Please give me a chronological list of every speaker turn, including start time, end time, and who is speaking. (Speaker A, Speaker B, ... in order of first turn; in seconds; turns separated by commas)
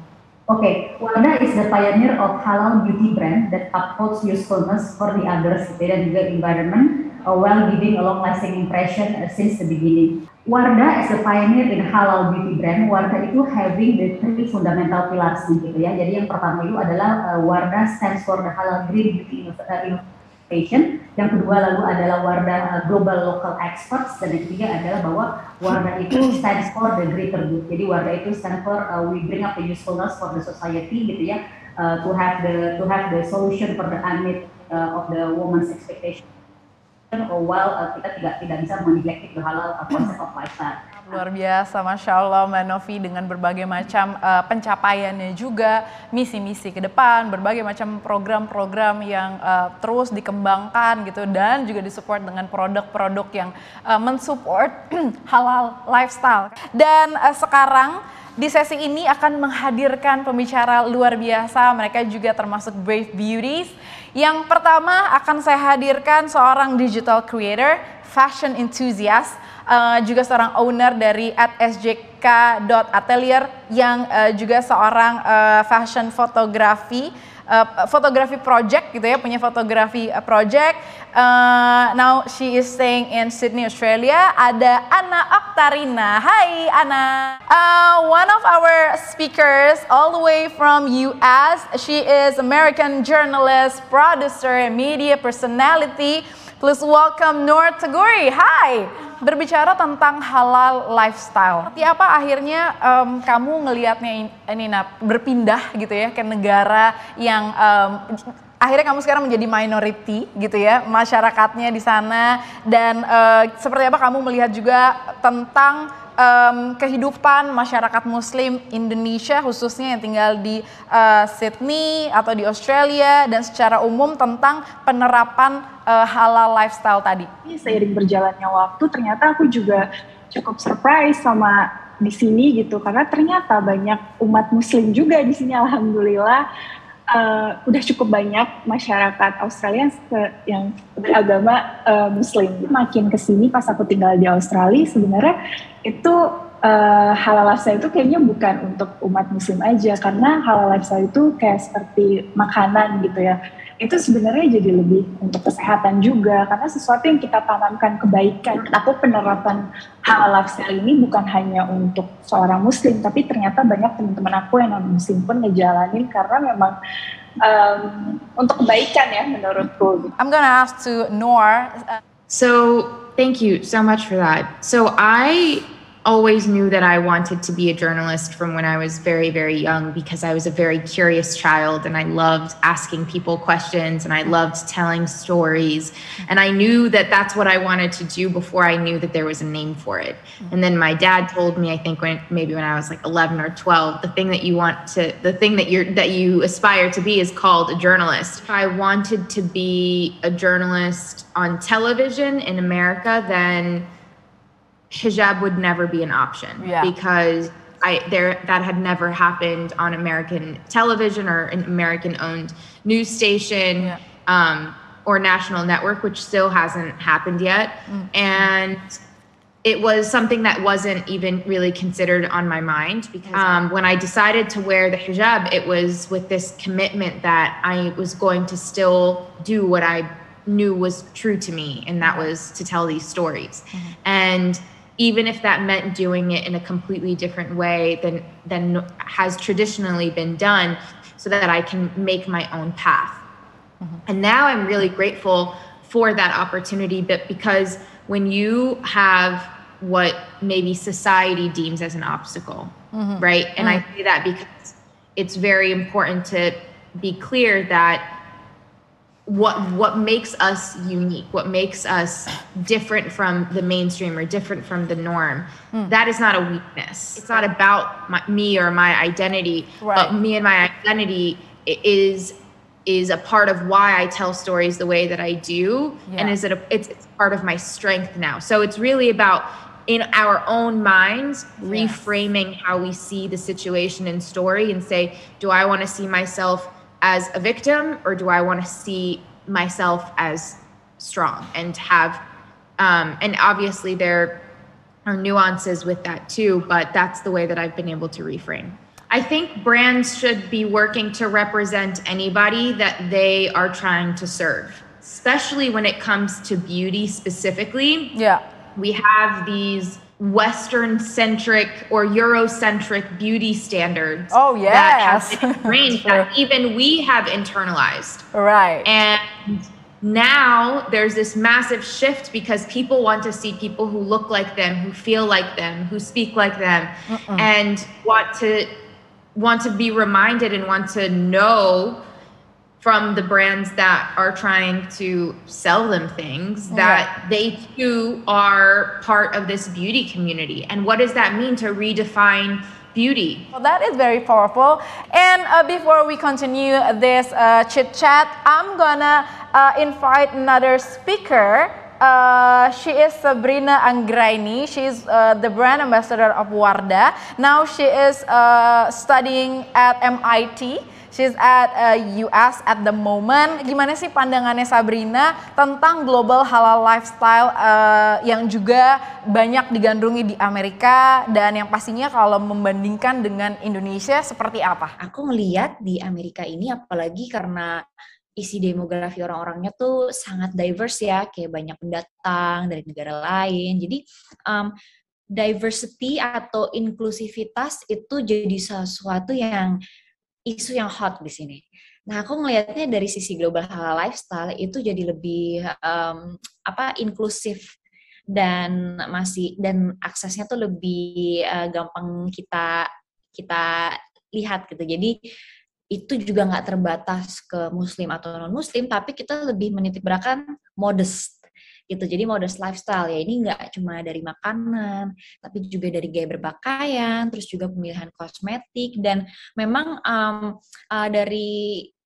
Speaker A: 0.5-36.2, Speaker A: 37.1-40.8, Speaker B: 41.1-108.0, Speaker B: 108.6-127.3, Speaker C: 127.5-136.4, Speaker C: 137.1-145.3, Speaker C: 145.8-146.2, Speaker C: 146.7-166.8, Speaker C: 167.4-170.1, Speaker B: 170.2-172.0, Speaker D: 172.3-203.9, Speaker D: 204.9-218.8, Speaker B: 206.6-206.9, Speaker D: 219.6-243.2, Speaker B: 232.0-232.3, Speaker D: 244.1-258.1, Speaker B: 252.9-253.8, Speaker D: 259.3-272.4, Speaker B: 269.8-270.1, Speaker D: 272.9-292.2, Speaker B: 276.1-276.4, Speaker B: 281.6-282.0, Speaker D: 292.8-294.4, Speaker D: 295.1-308.1, Speaker B: 308.1-308.4, Speaker D: 308.8-318.2, Speaker B: 314.3-316.3, Speaker B: 318.3-318.9, Speaker D: 318.8-328.7, Speaker B: 327.1-327.5, Speaker D: 329.4-332.0, Speaker D: 332.8-343.4, Speaker B: 336.7-337.1, Speaker B: 343.5-374.9, Speaker E: 375.0-377.8, Speaker E: 378.4-384.7, Speaker E: 385.4-389.8, Speaker E: 390.5-397.7, Speaker E: 398.4-405.1, Speaker E: 405.9-421.9